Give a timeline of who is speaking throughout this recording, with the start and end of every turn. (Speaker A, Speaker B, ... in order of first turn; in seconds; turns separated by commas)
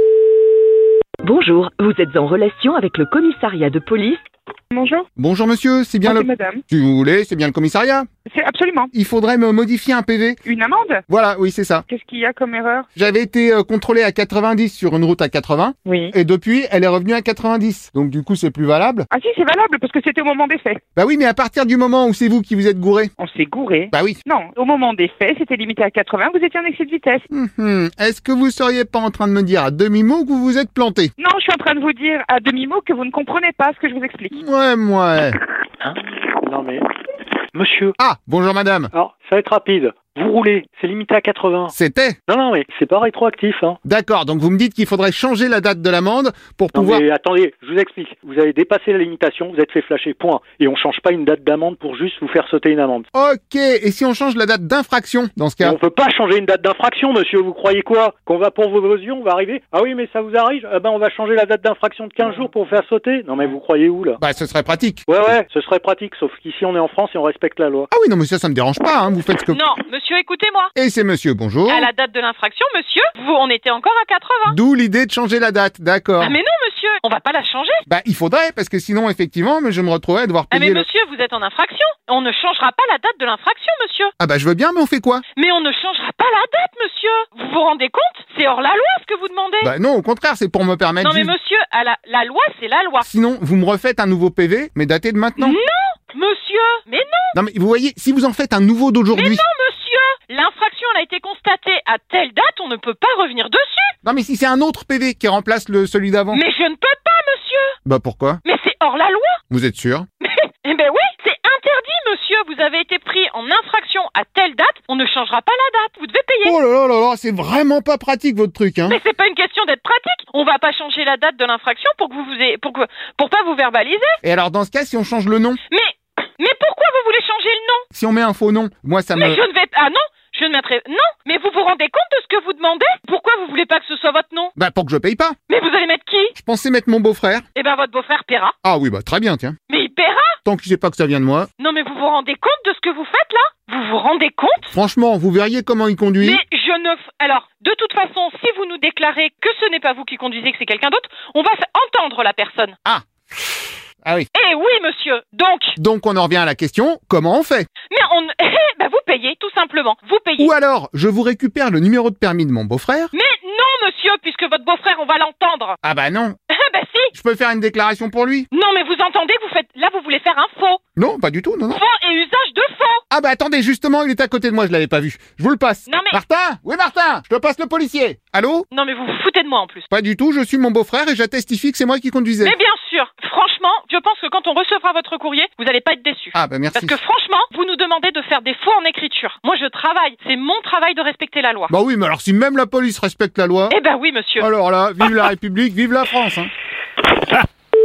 Speaker A: 1.2-4.2, Speaker B: 4.7-5.0, Speaker C: 5.2-8.1, Speaker B: 6.0-6.6, Speaker B: 8.3-8.9, Speaker C: 8.9-10.4, Speaker B: 10.4-11.0, Speaker C: 11.1-11.8, Speaker B: 11.9-12.9, Speaker C: 12.9-19.1, Speaker B: 15.8-16.1, Speaker B: 19.1-20.8, Speaker C: 20.9-23.1, Speaker B: 23.2-27.2, Speaker C: 23.9-24.2, Speaker C: 27.3-31.1, Speaker B: 31.2-34.3, Speaker C: 34.3-35.4, Speaker D: 35.8-36.9, Speaker D: 37.5-37.9, Speaker C: 38.0-38.9, Speaker D: 38.9-41.7, Speaker C: 41.7-42.2, Speaker D: 42.3-43.8, Speaker C: 43.8-47.0, Speaker D: 46.7-53.0, Speaker C: 53.1-55.8, Speaker D: 55.6-64.2, Speaker C: 64.2-65.1, Speaker D: 65.1-67.9, Speaker C: 67.9-69.6, Speaker E: 69.5-70.7, Speaker C: 70.7-71.9, Speaker E: 71.7-74.6, Speaker C: 74.5-76.4, Speaker E: 76.2-77.8, Speaker C: 77.9-80.9, Speaker E: 80.5-84.1, Speaker C: 84.2-85.2, Speaker E: 85.3-89.7, Speaker C: 89.6-91.3, Speaker E: 91.0-93.0, Speaker C: 93.0-95.6, Speaker E: 95.4-97.3, Speaker C: 97.3-99.4, Speaker E: 99.1-103.9, Speaker C: 104.0-106.4, Speaker E: 106.3-107.7, Speaker C: 107.8-108.4, Speaker E: 108.4-109.4, Speaker C: 109.5-110.0, Speaker E: 110.2-116.5, Speaker C: 116.4-119.0, Speaker E: 118.8-124.2, Speaker C: 124.2-125.6, Speaker E: 125.7-127.8, Speaker C: 127.9-129.4, Speaker E: 129.1-134.5, Speaker C: 134.6-135.3, Speaker E: 135.5-136.3, Speaker C: 136.4-137.4, Speaker E: 137.5-138.5, Speaker C: 138.6-139.6, Speaker E: 139.7-140.4, Speaker C: 140.4-141.5, Speaker E: 141.6-144.7, Speaker C: 144.7-146.4, Speaker E: 146.2-152.8, Speaker C: 154.0-154.3, Speaker E: 154.3-155.7, Speaker C: 155.8-157.7, Speaker E: 157.9-160.5, Speaker C: 160.4-163.1, Speaker E: 163.1-165.8, Speaker C: 165.8-166.4, Speaker E: 166.5-167.1, Speaker C: 167.1-168.5, Speaker E: 168.5-170.8, Speaker C: 170.9-171.8, Speaker E: 171.7-173.0, Speaker C: 173.1-178.7, Speaker E: 175.9-176.2, Speaker E: 178.7-179.9, Speaker C: 179.9-182.6, Speaker E: 182.4-191.7, Speaker C: 186.3-187.0, Speaker C: 191.7-193.8, Speaker E: 193.7-194.5, Speaker C: 194.4-196.5